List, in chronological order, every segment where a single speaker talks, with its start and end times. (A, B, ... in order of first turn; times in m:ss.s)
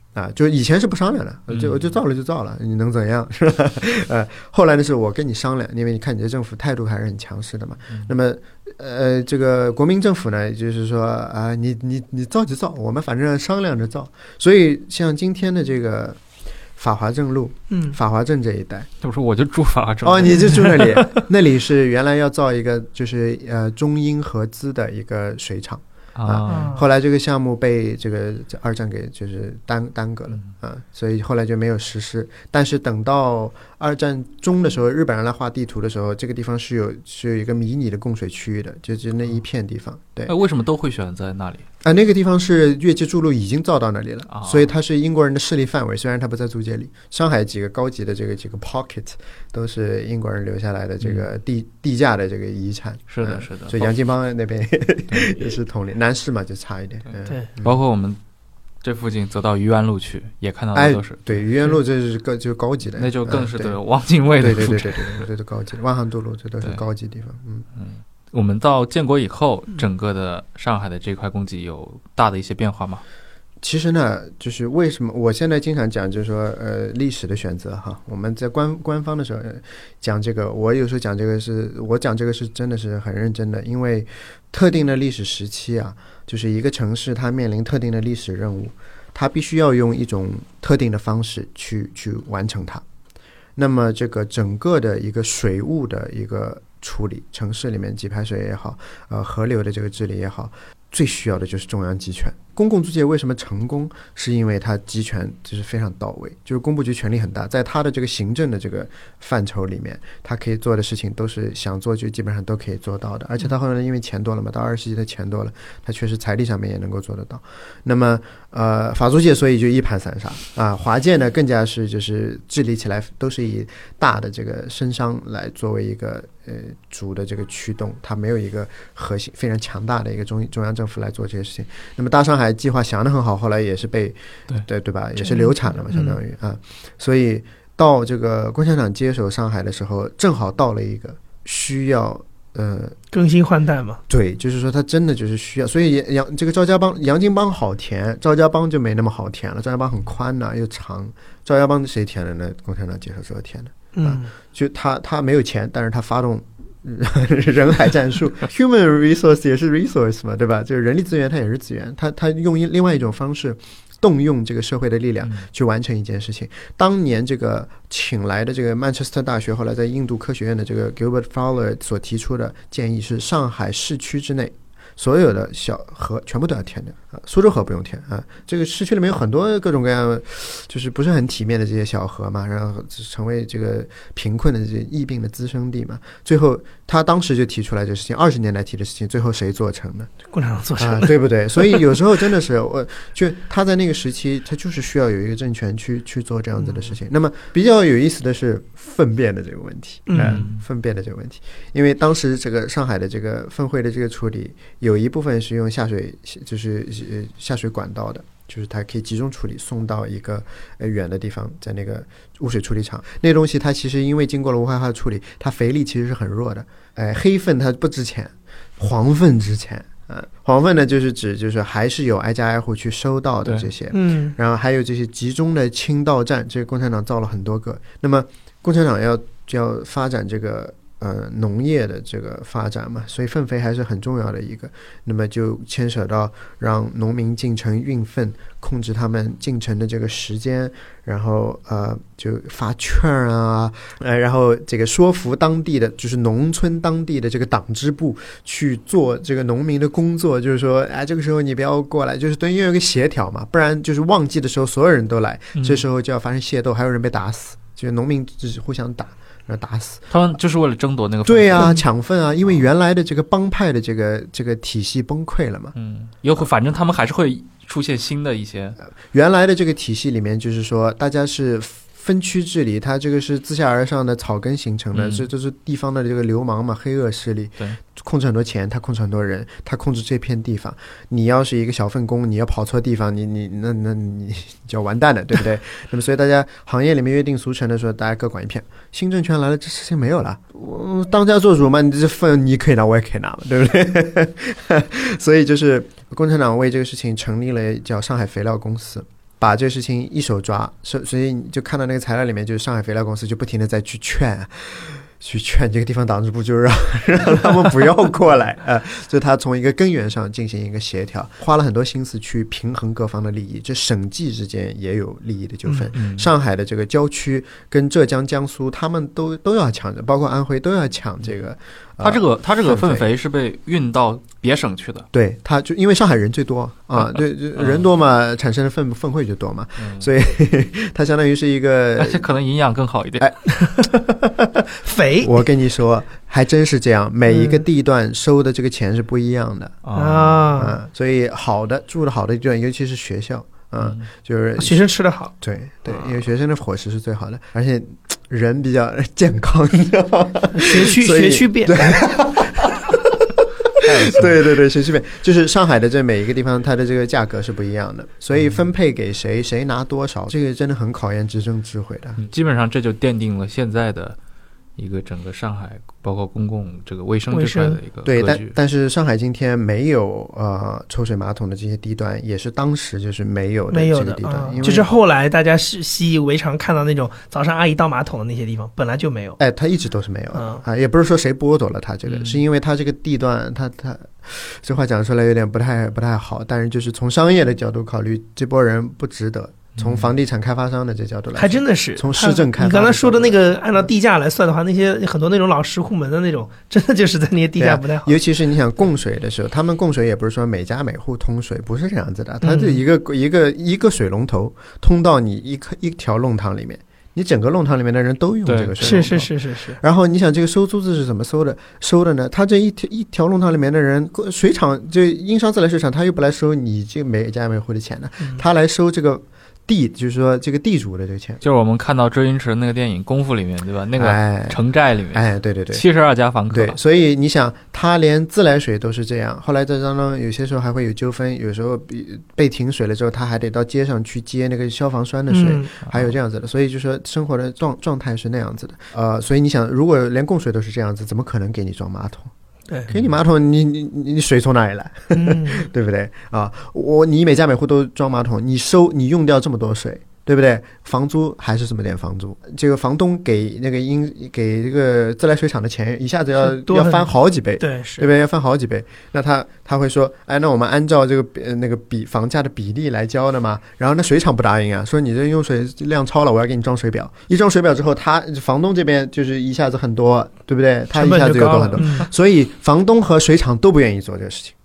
0:00.2-0:16.2 A
0:01.5-0:01.9 B
0:16.8-0:18.9 A
0:17.7-0:18.0 C
0:19.0-0:20.9 B
0:20.0-0:40.3 A
0:26.2-0:26.8 B
0:26.5-0:26.9 C
0:40.3-0:41.7 B
0:41.8-0:57.8 A
0:44.3-0:44.7 B
0:51.0-0:51.3 B
0:53.1-0:53.9 B
0:55.1-0:55.4 B
0:57.1-0:58.2 B
0:58.8-1:01.8 B
1:00.8-1:03.8 A
1:02.9-1:05.3 B
1:04.4-1:07.7 A
1:07.8-1:13.0 B
1:13.6-1:32.8 A
1:33.6-2:23.0 A
2:15.2-2:16.2 C
2:23.1-2:24.0 C
2:24.1-3:10.1 A
2:33.9-2:34.3 C
2:45.2-2:45.5 B
3:10.3-3:11.8 C
3:10.8-4:20.1 A
3:20.1-3:20.4 C
3:20.2-3:20.6 B
3:43.9-3:44.4 C
4:15.6-4:15.8 B
4:20.1-4:21.8 B
4:21.3-4:25.8 A
4:25.8-4:28.8 B
4:29.1-5:23.1 A
4:34.9-4:35.3 B
5:15.7-5:15.9 C
5:15.9-5:16.3 B
5:22.0-5:25.1 B
5:25.1-5:32.2 A
5:27.2-5:27.9 B
5:29.8-5:30.1 B
5:32.0-5:33.3 B
5:33.6-5:34.0 C
5:34.8-5:35.4 C
5:35.2-5:39.8 A
5:37.3-5:37.6 C
5:39.8-5:40.5 B
5:40.0-5:40.8 C
5:40.6-5:44.8 A
5:43.8-5:44.1 B
5:44.6-5:45.3 C
5:45.4-6:02.2 A
5:50.5-5:51.8 C
5:53.8-5:54.4 B
5:58.3-5:58.6 B
6:02.2-6:04.2 B
6:04.8-6:08.6 B
6:07.3-6:07.8 C
6:08.0-6:14.9 A
6:13.7-6:19.4 C
6:19.4-6:33.9 A
6:20.3-6:20.6 C
6:22.1-6:22.4 B
6:29.8-6:30.1 B
6:31.4-6:38.2 C
6:37.6-7:01.4 A
6:42.4-6:42.8 C
6:48.4-6:49.1 B
6:48.8-6:49.8 C
7:01.4-7:06.8 B
7:04.0-7:04.6 A
7:05.1-7:05.8 A
7:06.5-7:22.3 A
7:15.3-7:15.7 C
7:15.8-7:16.1 B
7:22.9-7:54.5 A
7:25.1-7:25.7 C
7:36.4-7:38.1 C
7:51.0-7:52.1 C